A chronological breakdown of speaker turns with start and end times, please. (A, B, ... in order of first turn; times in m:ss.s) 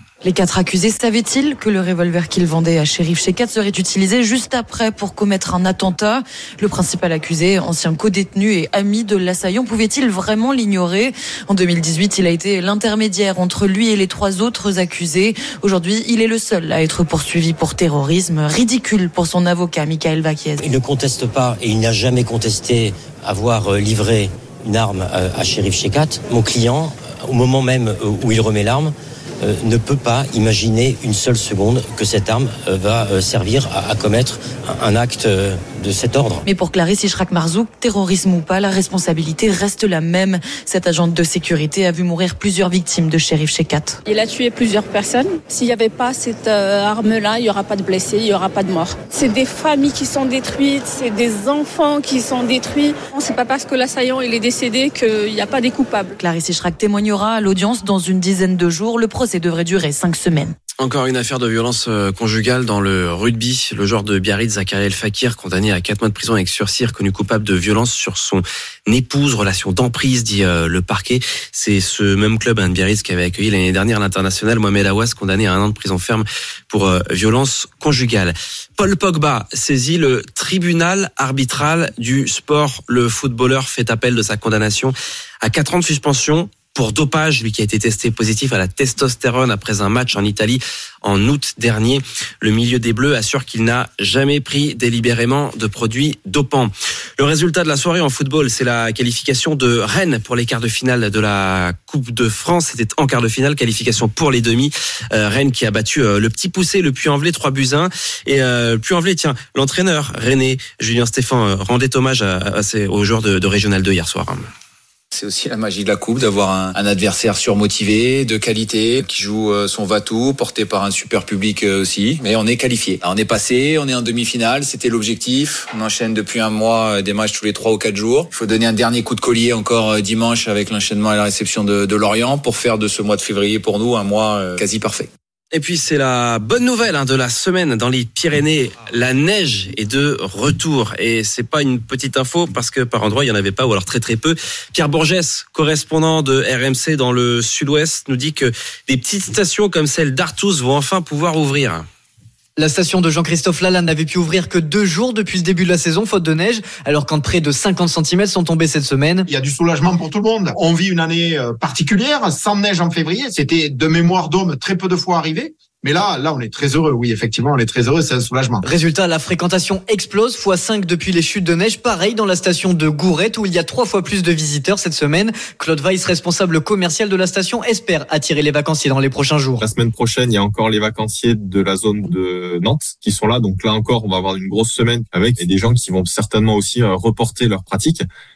0:00.2-0:20.6 A
0:20.6-0:36.4 B
0:36.4-0:44.0 A
0:44.1-0:56.1 C
0:56.2-1:00.5 A
1:00.8-1:24.9 D
1:25.4-1:54.5 D
1:55.1-2:15.1 E
2:15.5-2:31.8 D
2:32.6-2:39.3 F
2:39.3-2:48.6 G
2:48.6-2:59.6 F
2:59.6-3:08.0 H